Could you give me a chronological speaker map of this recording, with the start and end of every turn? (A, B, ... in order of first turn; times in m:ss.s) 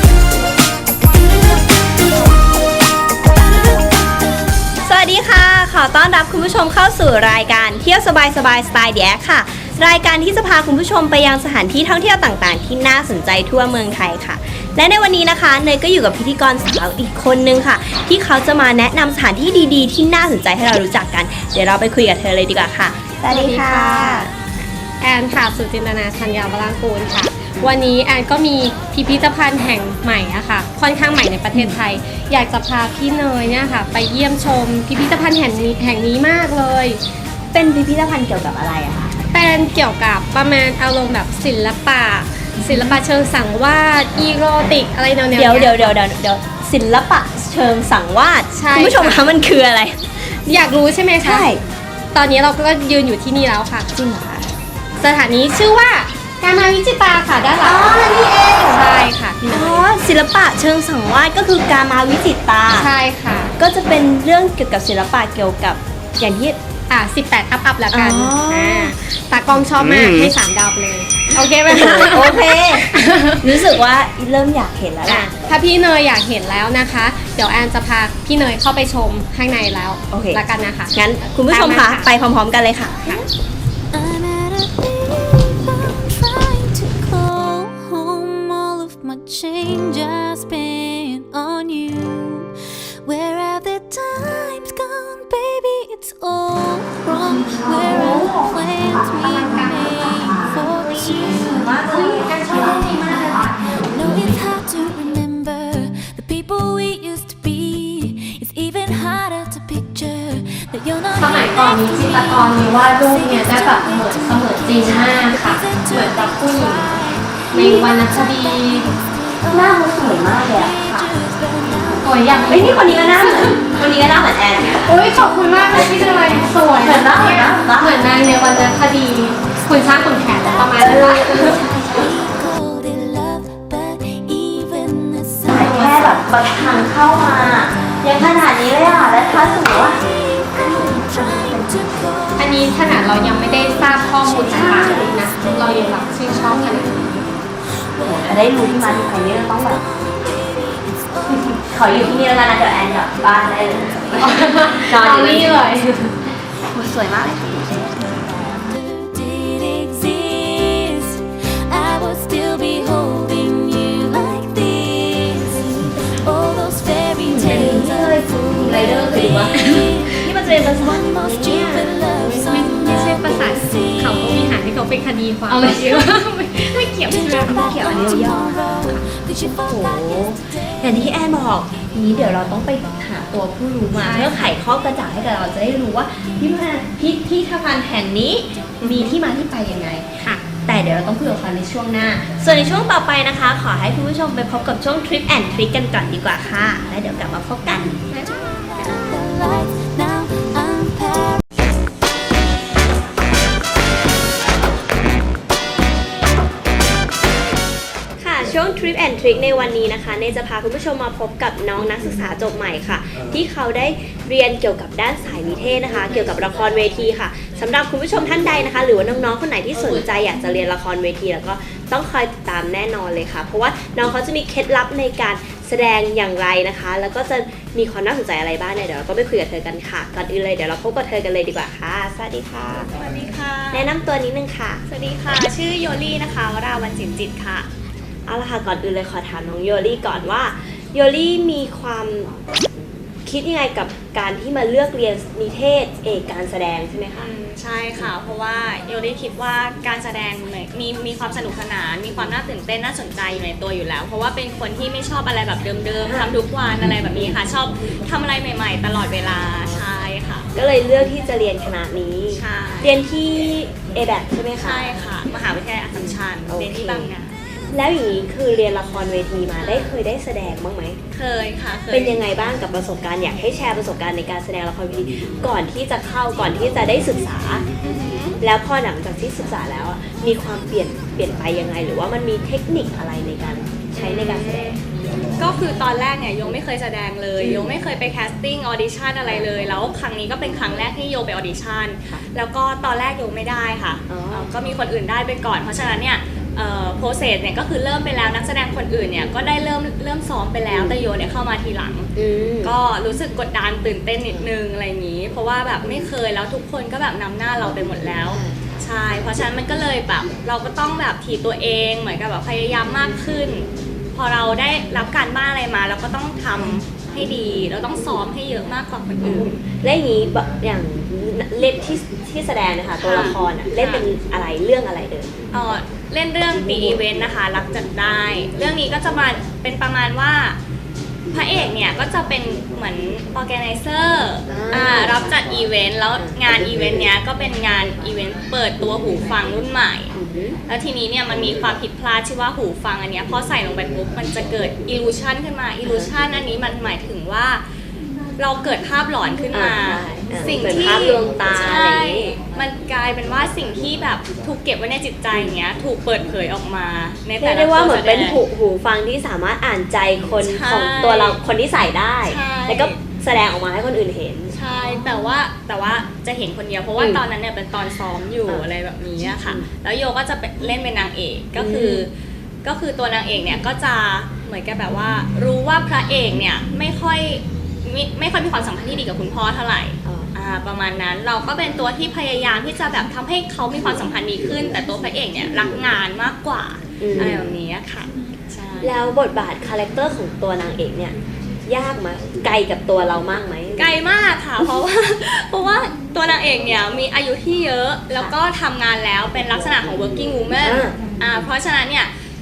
0:04.8-0:24.3 A
0:23.3-0:24.3 B
0:25.0-0:37.0 B
0:37.5-0:39.2 A
0:39.3-0:46.0 B
0:42.6-0:43.0 A
0:45.3-0:50.0 A
0:48.5-0:49.2 B
0:50.3-0:51.5 B
0:51.2-0:51.6 A
0:52.1-0:58.1 B
0:57.6-0:58.8 A
0:58.7-0:59.8 B
0:59.4-1:02.9 A
1:02.7-1:03.6 B
1:03.6-1:06.6 A
1:06.9-1:13.6 B
1:07.9-1:08.9 A
1:09.8-1:10.3 A
1:11.3-1:15.3 A
1:15.1-1:22.1 B
1:20.1-1:20.4 A
1:20.9-1:23.3 A
1:23.9-1:32.5 C
1:33.0-1:41.8 C
1:37.1-1:44.3 A
1:39.3-1:39.7 B
1:41.3-1:44.2 B
1:43.7-2:03.5 C
1:51.2-1:57.0 B
1:57.5-1:58.9 B
1:57.6-1:57.9 A
1:59.5-2:00.8 A
2:00.7-2:01.1 B
2:02.0-2:03.6 B
2:02.5-2:04.9 A
2:04.8-2:11.6 B
2:05.7-2:08.0 A
2:09.5-2:18.1 C
2:10.8-2:12.3 A
2:15.5-2:20.0 A
2:19.6-2:31.7 C
2:20.5-2:22.2 A
2:22.4-2:27.3 B
2:24.5-2:25.1 A
2:28.0-2:29.8 A
2:31.5-2:35.6 A
2:34.2-2:36.2 B
2:36.6-2:38.6 A
2:38.4-2:54.5 C
2:47.2-2:49.7 A
2:49.5-2:50.2 B
2:50.2-2:51.9 A
2:51.5-2:57.8 B
2:55.7-2:56.2 C
2:56.8-3:01.2 C
2:57.2-2:59.0 A
2:59.6-3:18.0 A
3:03.9-3:04.5 B
3:08.8-3:09.2 B
3:18.2-3:21.5 C
3:28.2-3:52.9 A
3:52.9-3:53.9 D
3:53.7-3:54.8 A
3:54.9-3:57.7 D
3:58.3-4:02.3 A
4:03.2-4:07.3 A
4:07.2-4:20.5 D
4:16.0-4:16.3 A
4:16.8-4:17.4 A
4:20.5-4:25.0 A
4:22.3-4:23.0 D
4:24.6-4:27.4 D
4:26.0-4:27.1 A
4:27.7-4:31.0 A
4:29.6-4:29.9 D
4:31.1-4:32.2 D
4:31.9-4:37.6 A
4:37.8-4:38.4 D
4:38.4-4:45.5 A
4:44.0-4:44.8 D
4:45.4-5:02.1 D
4:47.4-4:47.8 A
4:54.1-4:54.5 A
5:00.7-5:01.0 A
5:02.2-5:02.7 A
5:02.6-5:19.5 D
5:08.3-5:08.6 A
5:19.2-5:25.4 A
5:23.0-5:24.1 D
5:25.5-5:30.6 D
5:26.6-5:27.0 A
5:31.3-5:40.1 D
5:34.5-5:35.3 A
5:40.1-5:40.6 A
5:40.7-5:47.6 D
5:45.8-5:46.1 A
5:48.4-5:58.4 D
5:49.5-5:52.3 A
5:55.3-5:55.6 A
5:57.4-6:05.1 A
6:00.4-6:01.4 D
6:02.2-6:03.0 D
6:04.5-6:12.1 D
6:09.2-6:09.6 A
6:11.6-6:12.0 A
6:12.6-6:28.9 D
6:20.0-6:20.3 A
6:27.0-6:27.4 A
6:28.8-6:31.2 A
6:31.7-6:33.9 A
6:33.8-6:42.1 D
6:40.6-6:41.2 A